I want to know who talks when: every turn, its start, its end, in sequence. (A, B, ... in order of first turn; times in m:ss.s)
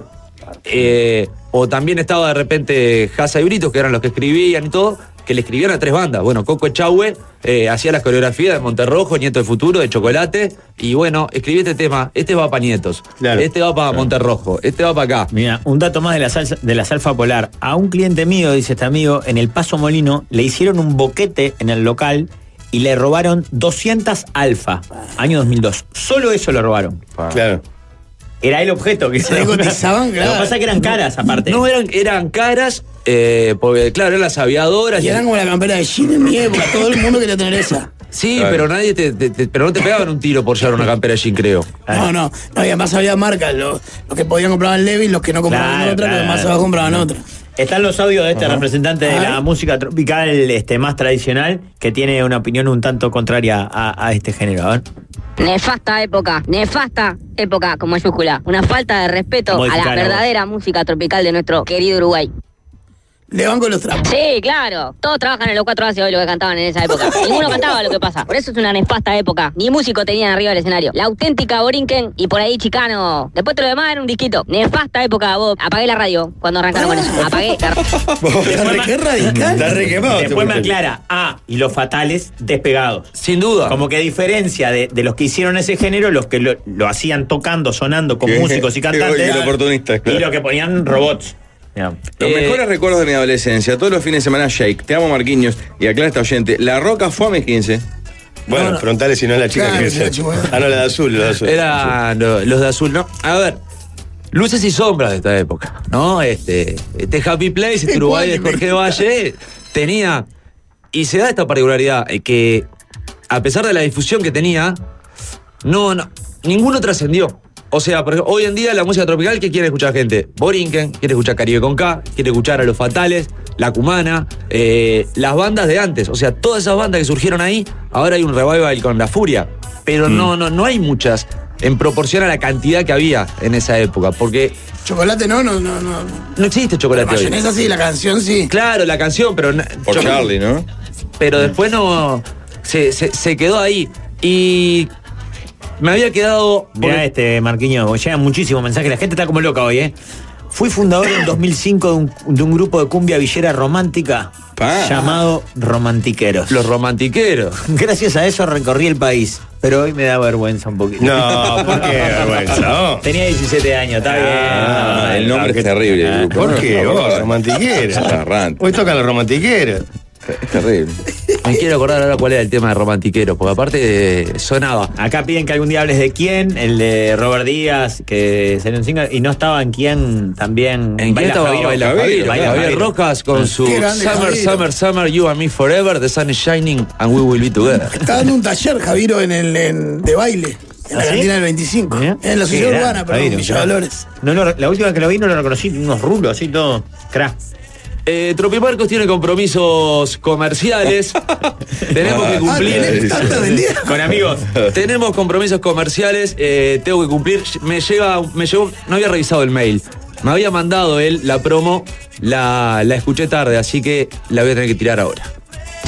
0:00.7-0:15.3 A
0:13.2-0:13.4 B
0:15.3-0:27.0 C
0:27.3-0:27.6 B
0:28.4-0:31.6 C
0:29.2-0:30.6 D
0:31.5-0:35.2 A
0:35.0-0:37.9 D
0:38.1-0:41.8 A
0:38.4-0:38.7 E
0:41.9-0:47.2 D
0:45.5-0:46.9 C
0:47.6-0:54.8 C
0:49.1-0:49.4 D
0:55.4-1:02.3 F
0:59.5-1:00.3 C
1:03.3-1:04.1 D
1:04.0-1:17.8 F
1:16.7-1:17.6 D
1:18.2-1:18.9 B
1:18.4-1:23.1 C
1:18.5-1:19.8 D
1:19.2-1:19.5 E
1:19.5-1:20.7 B
1:23.2-1:23.8 A
1:23.7-1:29.5 C
1:28.2-1:30.3 E
1:30.1-1:32.0 C
1:32.2-1:37.8 E
1:32.2-1:32.6 A
1:38.5-1:41.9 B
1:38.5-1:38.8 D
1:39.5-1:40.6 D
1:41.4-1:43.6 A
1:44.3-1:50.3 A
1:47.9-1:48.9 D
1:50.9-1:52.7 A
1:53.3-1:54.8 A
1:55.6-2:14.6 A
2:14.8-2:16.3 D
2:16.4-2:17.4 A
2:16.9-2:18.5 D
2:18.5-2:20.2 A
2:19.9-2:20.7 E
2:21.2-2:24.9 A
2:25.8-2:27.1 A
2:26.8-2:29.9 C
2:30.5-2:36.6 C
2:34.6-2:35.2 E
2:36.5-2:37.6 A
2:37.7-2:45.4 C
2:41.0-2:43.0 B
2:44.1-2:49.8 B
2:44.5-2:48.7 E
2:46.0-2:46.3 C
2:50.3-2:51.0 E
2:51.4-2:54.9 A
2:55.0-3:02.9 C
3:01.0-3:08.0 A
3:01.8-3:02.7 E
3:03.6-3:04.7 D
3:08.0-3:14.1 D
3:10.9-3:11.3 C
3:11.9-3:17.4 C
3:18.1-3:21.2 A
3:21.9-3:23.2 A
3:22.0-3:23.5 E
3:22.5-3:24.1 D
3:23.8-3:24.5 C
3:24.5-3:24.8 E
3:24.7-3:35.3 A